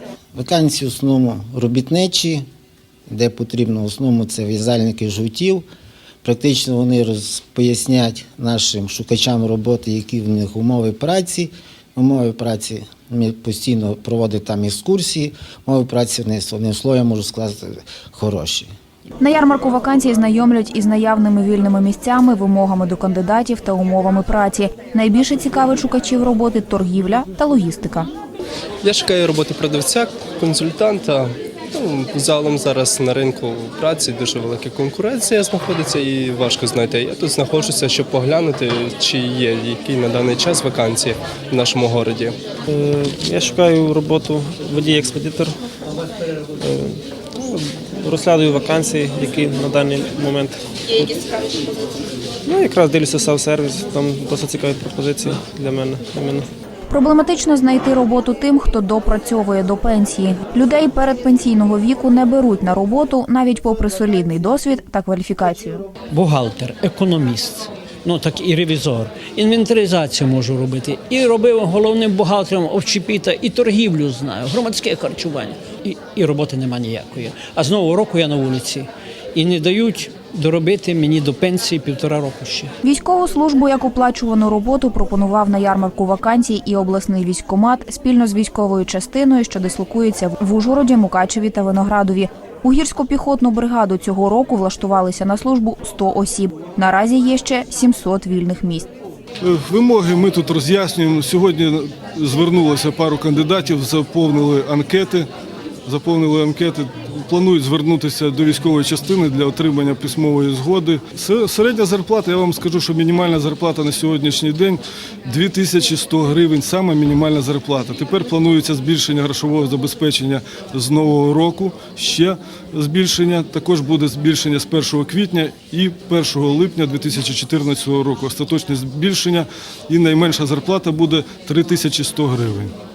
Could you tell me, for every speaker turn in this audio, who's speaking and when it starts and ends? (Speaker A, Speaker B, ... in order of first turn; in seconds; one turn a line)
Speaker A: 0.3-2.5
Speaker A: 3.1-5.7
Speaker A: 6.2-18.7
Speaker B: 19.2-28.1
Speaker C: 28.8-42.4
Speaker D: 42.7-45.6
Speaker D: 46.6-51.4
Speaker D: 52.5-56.5
Speaker B: 56.9-65.8
Speaker E: 66.1-82.8
Speaker B: 82.8-98.9
Speaker F: 99.4-105.3
Speaker F: 105.8-132.7